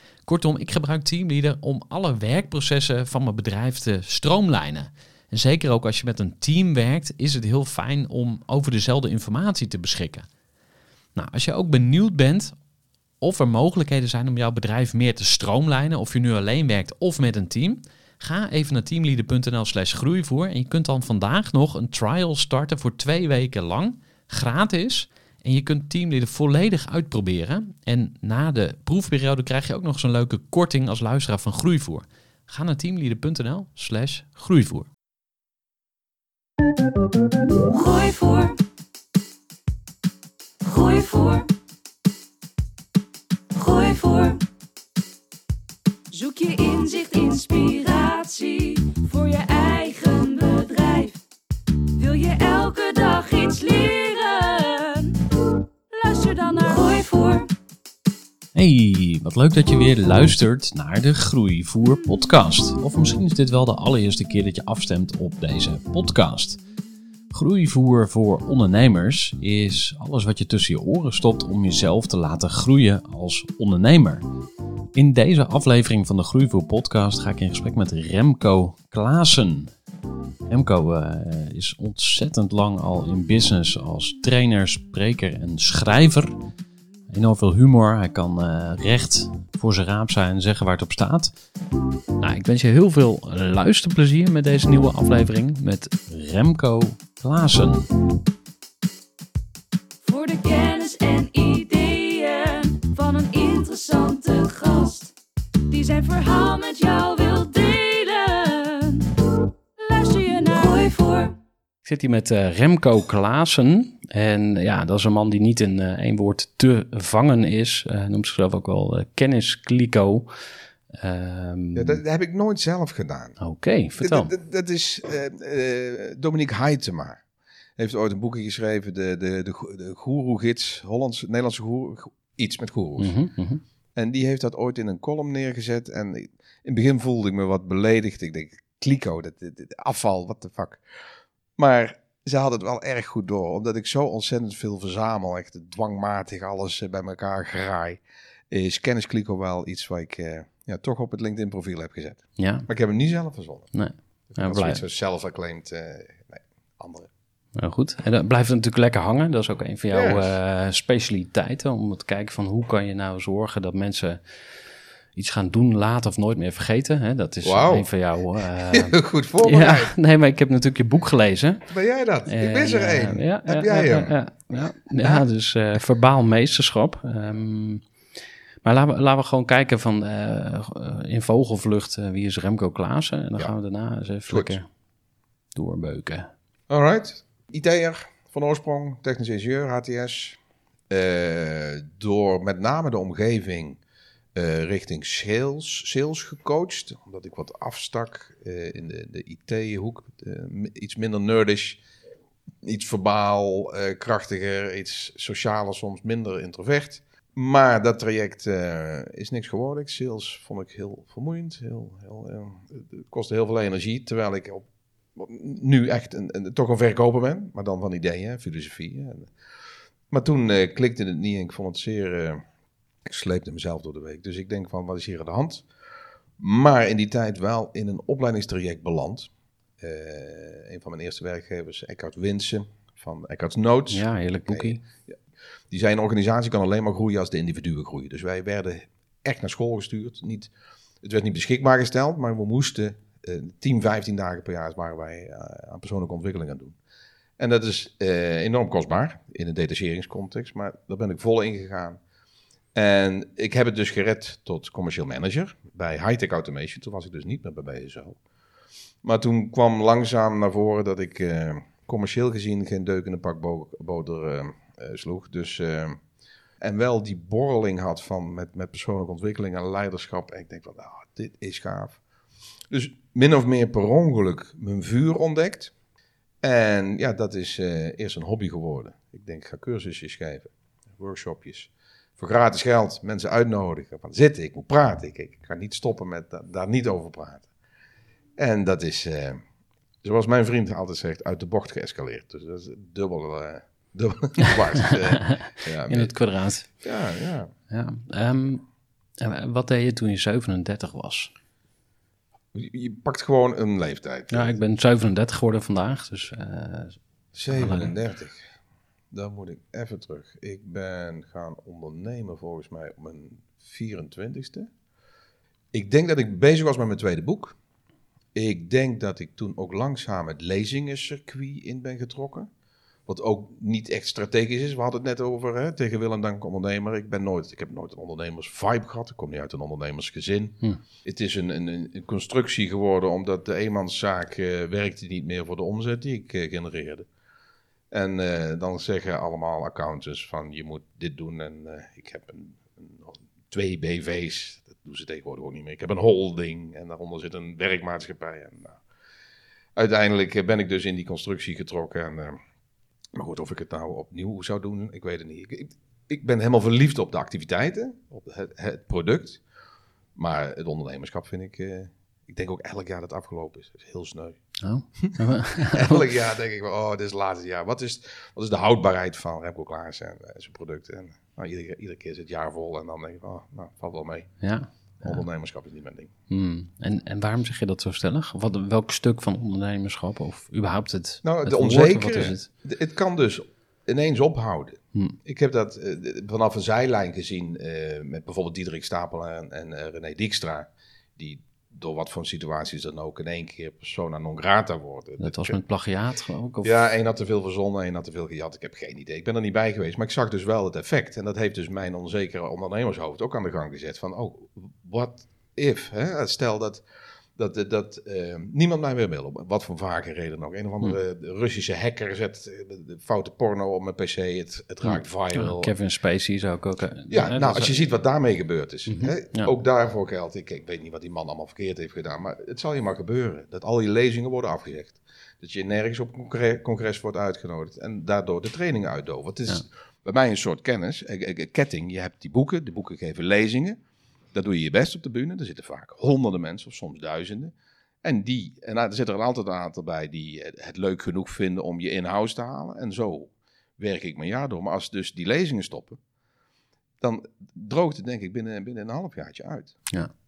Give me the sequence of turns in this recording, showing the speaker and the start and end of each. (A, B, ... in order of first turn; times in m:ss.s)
0:00.3-0:10.3 A
0:11.2-0:12.6 A
0:13.2-0:34.9 A
0:37.7-0:38.6 B
0:40.6-0:41.5 B
0:43.5-0:44.4 B
0:46.1-0:51.2 B
0:52.0-0:57.5 B
0:58.5-1:06.6 A
1:07.3-1:14.2 A
1:14.9-1:19.7 A
1:20.5-1:26.4 A
1:27.1-1:31.3 A
1:32.2-1:37.8 A
1:40.0-1:45.1 B
1:45.7-1:51.4 B
1:51.8-2:00.3 A
2:00.9-2:02.0 A
2:01.7-2:03.4 C
2:03.4-2:04.3 A
2:04.0-2:07.2 C
2:07.8-2:13.2 C
2:13.0-2:13.6 A
2:13.9-2:20.8 C
2:21.6-2:33.7 C
2:32.4-2:32.7 A
2:33.7-2:34.8 A
2:34.3-2:37.1 C
2:37.6-2:44.4 A
2:39.9-2:40.3 C
2:45.1-2:51.6 A
2:47.4-2:47.9 C
2:48.7-2:49.9 C
2:51.7-2:55.2 C
2:52.2-2:57.8 A
2:58.6-3:04.7 A
3:04.3-3:04.6 C
3:05.5-3:06.3 A
3:06.7-3:10.4 C
3:10.9-3:13.8 C
3:14.3-3:21.8 C
3:22.6-3:39.3 C
3:40.1-3:42.4 C
3:43.0-3:45.6 C
3:46.4-3:55.1 C
3:53.9-3:54.8 A
3:55.7-4:00.5 C
4:01.0-4:06.8 C
4:07.4-4:12.0 C
4:12.7-4:18.2 C
4:19.0-4:26.0 C
4:26.6-4:32.0 C
4:32.7-4:35.7 C
4:36.4-4:47.5 C
4:48.4-4:49.4 C
4:50.0-4:56.1 C
4:54.8-4:56.7 A
4:56.8-4:57.5 C
4:57.7-4:58.6 A
4:59.2-5:01.3 A
5:02.5-5:04.6 C
5:04.3-5:07.0 A
5:07.3-5:08.5 C
5:07.5-5:07.9 A
5:09.1-5:14.7 C
5:15.7-5:17.6 C
5:18.3-5:22.5 C
5:23.0-5:37.1 C
5:37.9-5:48.8 C
5:49.8-5:52.4 C
5:53.1-5:59.4 C
6:00.2-6:04.4 C
6:04.6-6:06.0 A
6:05.0-6:14.3 C
6:14.4-6:15.2 A
6:15.0-6:16.1 C
6:16.3-6:22.5 A
6:21.2-6:35.6 C
6:35.2-6:36.8 A
6:36.6-6:46.8 C
6:47.4-6:55.7 C
6:54.8-6:57.8 A
6:57.1-7:13.8 C
6:58.9-6:59.5 A
7:14.3-7:26.0 C
7:27.0-7:29.8 C